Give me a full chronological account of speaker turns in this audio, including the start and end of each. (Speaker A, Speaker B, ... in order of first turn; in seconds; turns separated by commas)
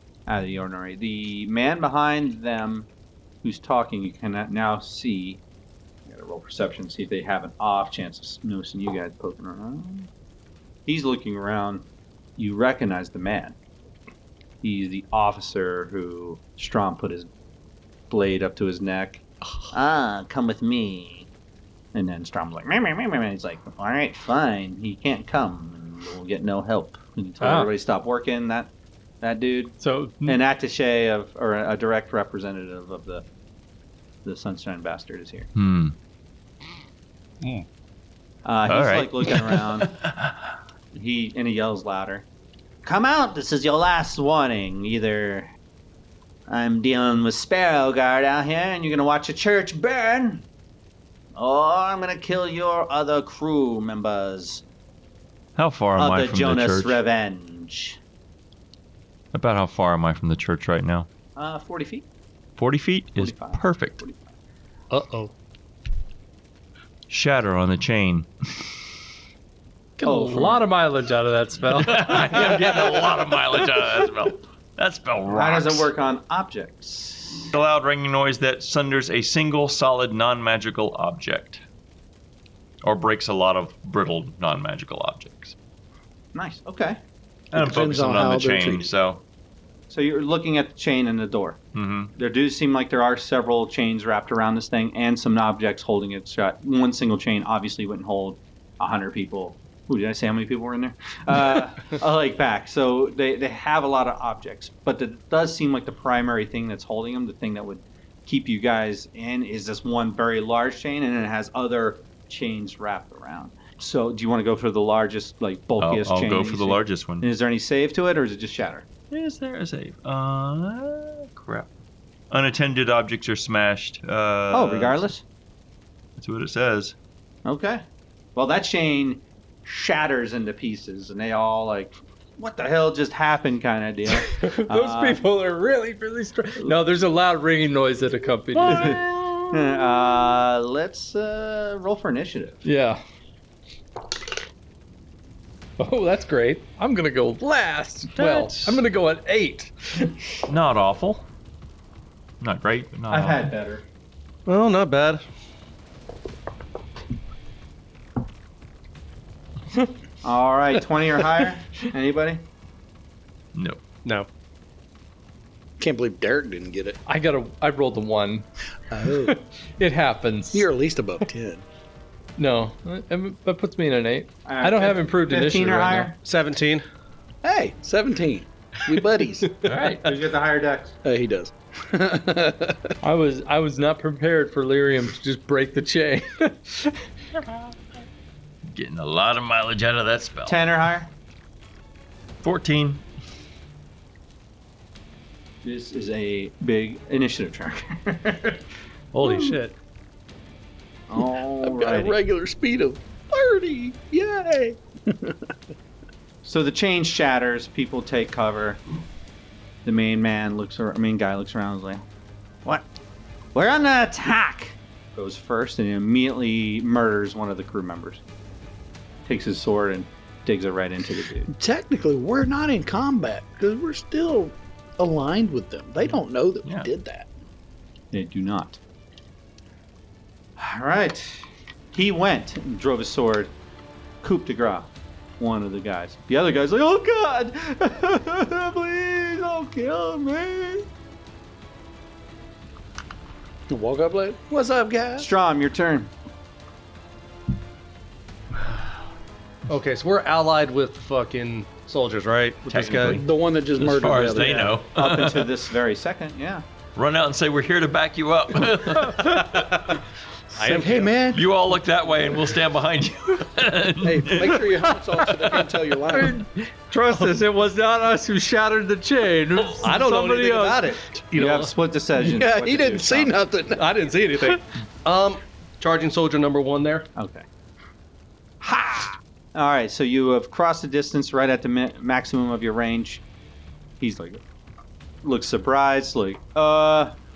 Speaker A: 0.3-2.9, Speaker A: 3.4-5.4, Speaker A: 6.0-10.1, Speaker A: 10.8-11.8, Speaker A: 12.4-13.6, Speaker A: 14.6-17.3, Speaker A: 18.1-21.3, Speaker A: 21.9-33.2, Speaker B: 27.4-27.7, Speaker B: 29.8-30.4, Speaker A: 34.2-35.5, Speaker C: 35.5-36.0, Speaker D: 37.4-37.6, Speaker A: 38.4-39.9, Speaker C: 38.7-40.4, Speaker A: 40.9-42.2, Speaker A: 42.8-45.5, Speaker A: 46.5-50.5, Speaker A: 51.3-54.6, Speaker C: 55.5-57.0, Speaker A: 56.0-58.0, Speaker C: 59.3-61.1, Speaker A: 61.4-62.0, Speaker C: 62.6-64.0, Speaker A: 63.1-64.3, Speaker D: 64.9-65.3, Speaker C: 67.1-68.3, Speaker B: 70.0-72.8, Speaker A: 70.0-70.6, Speaker C: 71.7-75.9, Speaker A: 75.2-77.5, Speaker C: 77.5-81.6, Speaker C: 82.8-85.5, Speaker A: 86.3-87.0, Speaker C: 87.5-89.2, Speaker E: 87.5-88.9, Speaker A: 89.9-91.6, Speaker C: 91.7-92.1, Speaker A: 92.1-118.9, Speaker C: 115.8-117.3, Speaker C: 119.1-121.7, Speaker C: 122.3-125.0, Speaker A: 124.5-125.2, Speaker C: 126.2-127.0, Speaker A: 127.4-135.2, Speaker B: 134.1-139.0, Speaker A: 138.6-142.6, Speaker B: 142.6-143.0, Speaker B: 145.8-150.1, Speaker A: 148.2-148.7, Speaker C: 148.3-148.7, Speaker C: 150.5-151.2, Speaker C: 152.4-153.5, Speaker A: 153.1-153.8, Speaker D: 154.4-155.2, Speaker A: 160.2-162.4, Speaker C: 163.5-163.8, Speaker E: 165.8-167.0, Speaker B: 167.1-168.4, Speaker E: 168.9-169.4, Speaker B: 169.1-170.7, Speaker E: 170.5-171.6, Speaker B: 172.4-176.1, Speaker A: 174.4-176.2, Speaker D: 176.2-176.8, Speaker E: 177.4-179.5, Speaker D: 179.6-179.9, Speaker A: 179.7-180.9, Speaker C: 179.7-180.0, Speaker E: 181.0-183.0, Speaker B: 183.0-187.4, Speaker C: 188.7-190.6, Speaker A: 190.4-191.1, Speaker C: 192.4-193.0, Speaker A: 195.6-198.6, Speaker D: 199.1-199.8, Speaker A: 199.2-199.6, Speaker A: 201.1-202.2, Speaker E: 201.1-205.5, Speaker A: 206.4-208.8, Speaker A: 209.8-212.0, Speaker A: 213.5-218.2, Speaker A: 219.2-221.5, Speaker E: 221.5-227.3, Speaker C: 226.6-226.9, Speaker A: 228.1-228.8, Speaker A: 230.6-233.5, Speaker A: 234.2-240.9, Speaker E: 243.7-245.3, Speaker A: 245.2-246.1, Speaker D: 249.7-253.2, Speaker C: 252.7-253.2, Speaker E: 253.1-254.8, Speaker C: 253.8-255.5, Speaker A: 254.9-256.6, Speaker C: 256.9-259.7, Speaker D: 259.3-260.0, Speaker D: 260.5-261.1, Speaker E: 260.6-261.4, Speaker C: 261.2-265.3, Speaker E: 264.0-266.4, Speaker B: 266.1-271.0, Speaker D: 269.7-271.7, Speaker A: 271.3-273.4, Speaker E: 272.2-273.9, Speaker D: 273.7-277.1, Speaker A: 277.1-277.4, Speaker A: 278.6-283.2, Speaker A: 284.0-284.4, Speaker A: 285.2-287.1